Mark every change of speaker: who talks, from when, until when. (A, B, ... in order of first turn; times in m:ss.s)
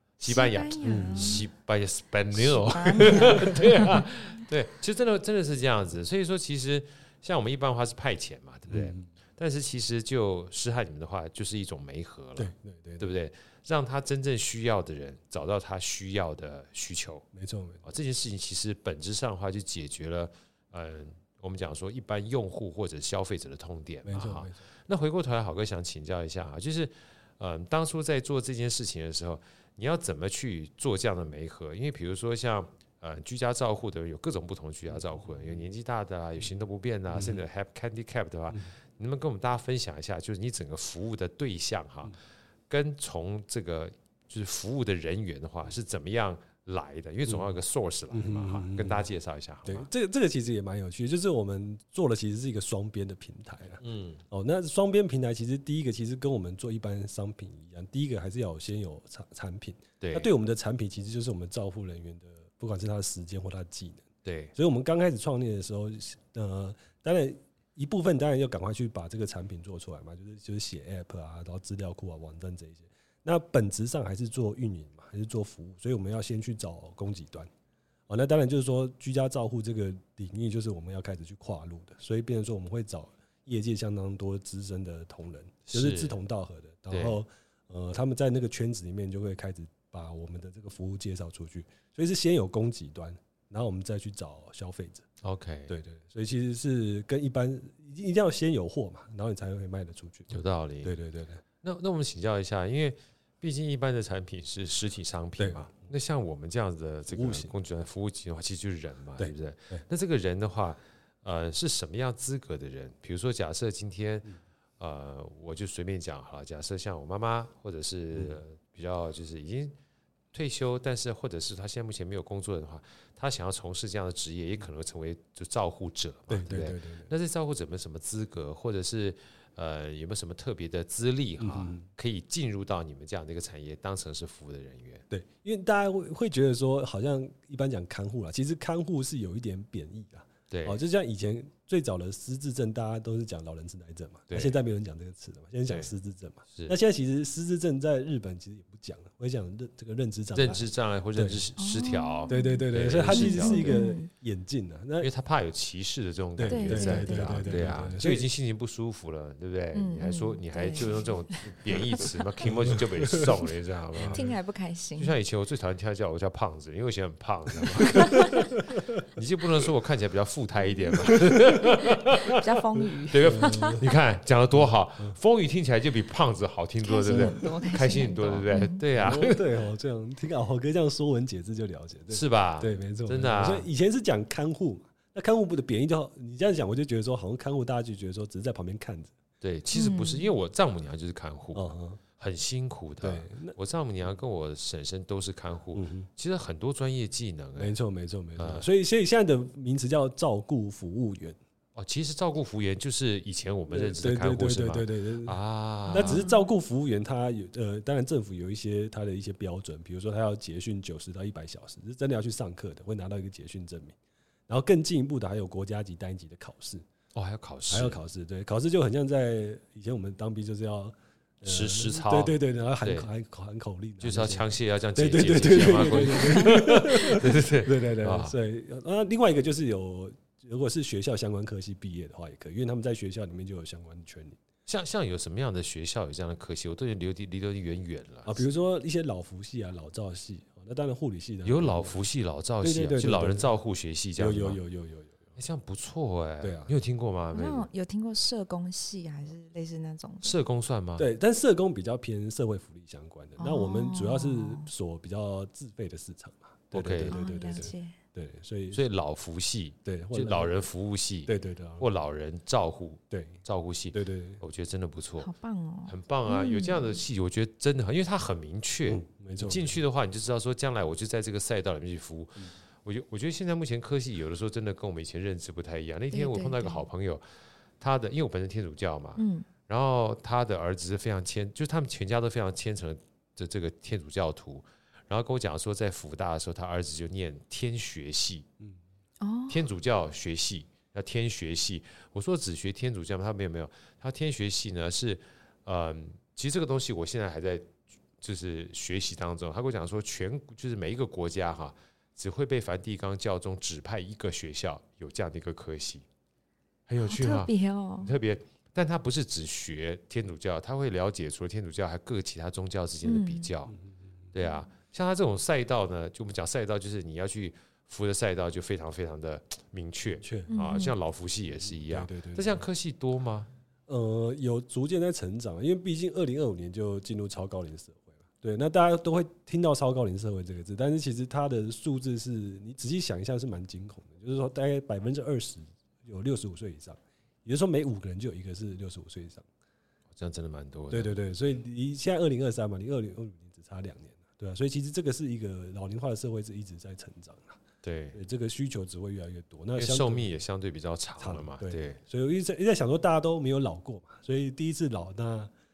0:00.2-0:17.2 A
0:00.2-0:01.5 B
0:00.8-0:01.4 C
0:02.4-0:04.1 B
0:08.7-0:09.1 C
0:12.4-0:13.1 C
0:17.3-0:17.8 C
0:17.8-0:42.1 A
0:24.0-0:24.6 C
0:37.1-0:37.4 C
0:42.7-0:49.9 A
0:47.3-0:47.6 C
0:48.1-0:49.0 C
0:49.6-1:17.5 C
0:53.8-0:54.2 A
1:00.0-1:00.3 A
1:04.2-1:04.5 A
1:18.1-1:35.0 C
1:25.6-1:26.2 A
1:26.9-1:27.2 A
1:35.2-1:35.7 A
1:35.7-1:41.4 C
1:40.3-1:40.9 A
1:41.6-1:59.7 A
1:45.4-1:45.7 C
1:47.1-1:47.5 C
1:49.2-1:49.8 C
2:00.3-2:15.0 A
2:06.3-2:07.1 C
2:11.4-2:11.9 C
2:15.1-2:31.4 C
2:20.5-2:20.8 A
2:24.3-2:24.6 A
2:30.3-2:33.8 A
2:31.6-2:34.1 B
2:32.3-2:35.1 C
2:35.0-2:44.3 A
2:36.4-2:38.3 C
2:36.5-2:37.8 B
2:39.7-2:42.1 B
2:42.5-2:43.3 C
2:43.9-2:44.3 C
2:44.1-2:45.2 B
2:45.0-2:52.6 A
2:48.0-2:48.4 B
2:48.3-2:49.0 C
2:51.1-2:51.4 C
2:52.2-2:53.8 B
2:53.1-2:59.4 A
2:53.2-2:53.9 C
2:54.6-2:55.2 C
2:56.8-2:58.8 B
2:58.9-3:09.1 C
3:02.1-3:03.7 A
3:09.4-3:17.7 A
3:09.7-3:10.3 B
3:11.5-3:12.0 C
3:13.0-3:13.6 C
3:15.7-3:16.1 C
3:17.6-3:21.4 C
3:18.4-3:18.7 A
3:21.7-3:26.2 A
3:23.7-3:34.0 C
3:25.9-3:26.5 B
3:34.5-3:36.8 C
3:37.1-3:38.0 A
3:37.7-3:54.4 C
3:41.4-3:43.1 A
3:44.0-3:48.4 A
3:54.6-3:58.4 A
3:58.2-4:02.0 C
4:01.4-4:04.6 A
4:02.6-4:03.5 C
4:04.2-4:05.2 C
4:05.4-4:07.7 A
4:06.4-4:06.7 C
4:07.3-4:10.3 B
4:10.2-4:11.1 A
4:11.0-4:18.8 C
4:13.4-4:14.7 B
4:16.7-4:17.2 A
4:17.1-4:18.0 B
4:18.7-4:25.3 A
4:19.8-4:20.5 C
4:21.3-4:21.9 C
4:23.1-4:23.4 C
4:23.9-4:24.4 C
4:25.2-4:27.0 B
4:25.9-4:37.2 A
4:28.8-4:29.8 C
4:36.1-4:36.8 B
4:37.8-4:48.5 A
4:39.2-4:39.5 B
4:49.2-4:49.7 B
4:49.5-5:06.0 A
5:06.9-5:13.8 A
5:07.0-5:08.1 B
5:13.0-5:13.5 B
5:14.3-5:23.5 A
5:20.2-5:20.5 C
5:20.5-5:20.9 B
5:21.6-5:22.6 C
5:23.9-5:39.5 C
5:40.2-5:41.2 A
5:40.9-5:47.6 C
5:47.8-5:48.2 A
5:48.1-5:50.3 C
5:49.8-5:52.0 A
5:51.2-5:55.5 C